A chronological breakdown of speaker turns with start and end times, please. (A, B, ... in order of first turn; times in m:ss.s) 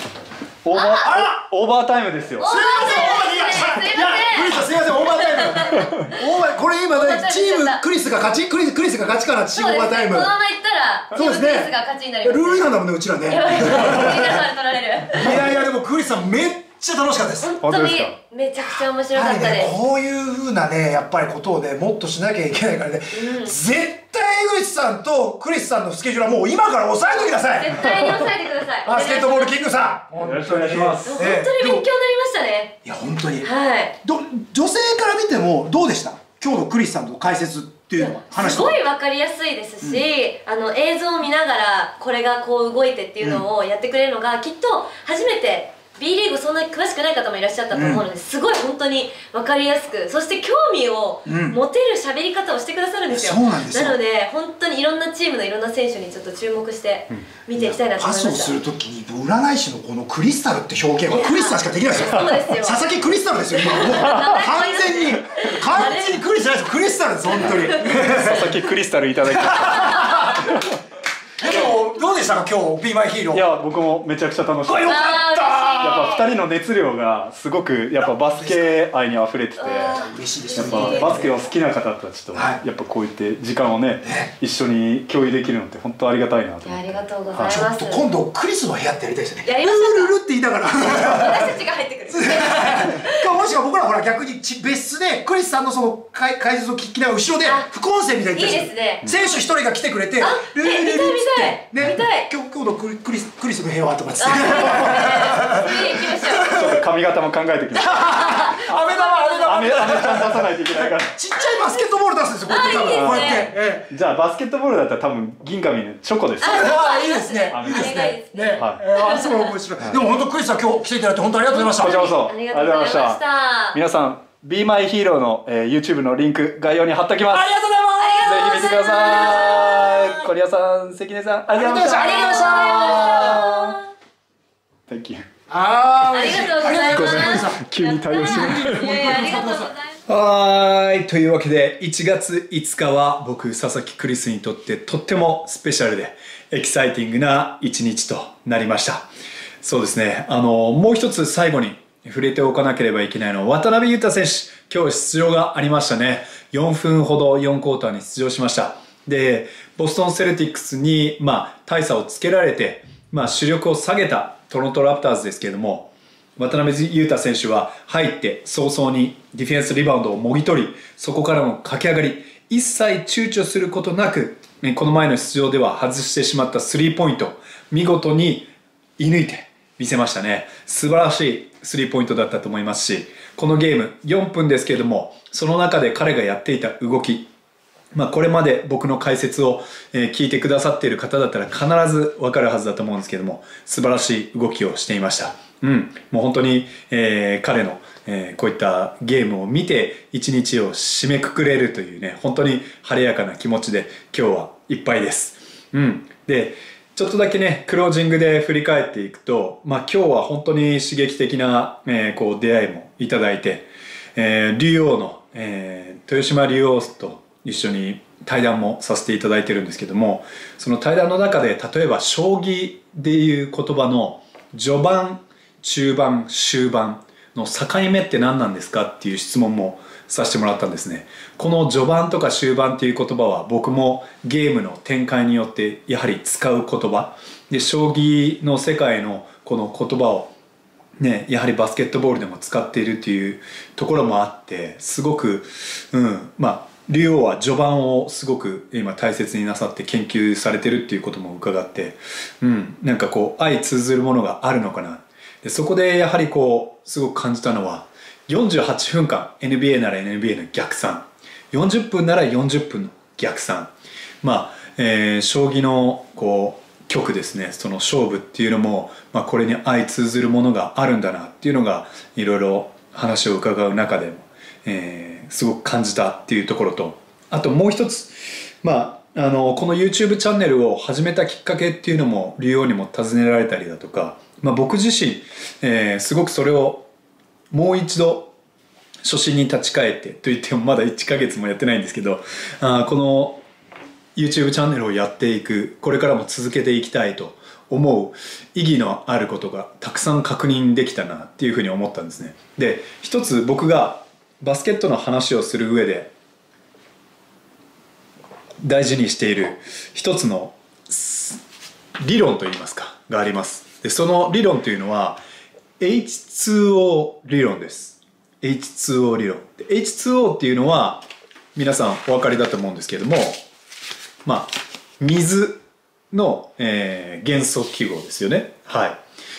0:00.6-0:02.5 A
0:00.7-0:01.2 B
0:02.4-0:06.3 B
0:02.4-0:10.3 C
0:06.9-0:07.8 B
0:09.5-0:15.4 B
0:11.1-0:14.4 C
0:15.2-0:17.5 C
0:17.4-0:19.7 B
0:17.6-0:18.2 A
0:19.1-0:27.8 C
0:23.1-0:23.6 B
0:27.0-0:29.6 B
0:28.8-0:31.8 C
0:30.2-0:31.3 A
0:31.0-0:32.8 B
0:32.8-0:33.5 C
0:33.4-0:33.9 B
0:34.0-0:38.8 C
0:38.0-0:58.6 B
0:43.2-0:43.4 C
0:47.7-0:48.0 C
0:51.2-0:51.6 C
0:53.1-0:54.0 C
0:57.5-1:08.5 C
1:01.1-1:02.8 B
1:03.5-1:06.2 B
1:07.3-1:08.0 B
1:07.4-1:10.6 A
1:09.4-1:10.4 C
1:09.7-1:10.2 B
1:11.4-1:13.4 C
1:13.3-1:15.0 A
1:14.6-1:16.1 C
1:14.8-1:16.3 B
1:15.8-1:20.0 A
1:18.2-1:18.8 C
1:19.6-1:21.2 B
1:20.0-1:21.3 C
1:20.6-1:27.7 A
1:22.3-1:22.6 C
1:24.0-1:24.3 C
1:26.6-1:28.1 B
1:27.4-1:31.5 C
1:29.4-1:30.2 B
1:30.8-1:33.4 B
1:32.1-1:46.8 C
1:37.4-1:37.7 B
1:38.3-1:39.3 B
1:40.2-1:42.3 B
1:44.2-1:46.5 B
1:44.6-1:45.1 A
1:46.5-1:48.9 A
1:47.8-1:53.9 C
1:48.2-1:49.5 B
1:49.4-1:51.2 A
1:51.5-1:51.8 B
1:52.4-1:53.5 B
1:52.9-1:56.6 A
1:56.4-1:59.5 B
1:56.5-2:02.1 C
1:57.5-1:58.8 A
2:01.5-2:03.8 B
2:01.8-2:07.5 A
2:07.3-2:08.9 C
2:08.0-2:10.2 B
2:08.2-2:12.8 A
2:11.5-2:13.7 C
2:11.9-2:13.8 B
2:14.9-2:15.3 A
2:15.5-2:17.6 C
2:16.2-2:20.0 B
2:16.3-2:19.2 A
2:18.2-2:19.7 C
2:20.0-2:29.0 A
2:29.6-3:07.3 A
3:07.9-4:00.3 A
4:01.0-4:46.9 A
4:47.5-4:48.3 A
4:49.0-4:53.4 A
4:54.2-5:06.1 A
5:08.6-5:11.4 A
5:12.0-5:15.2 A
5:15.8-5:23.4 A
5:24.2-5:29.0 A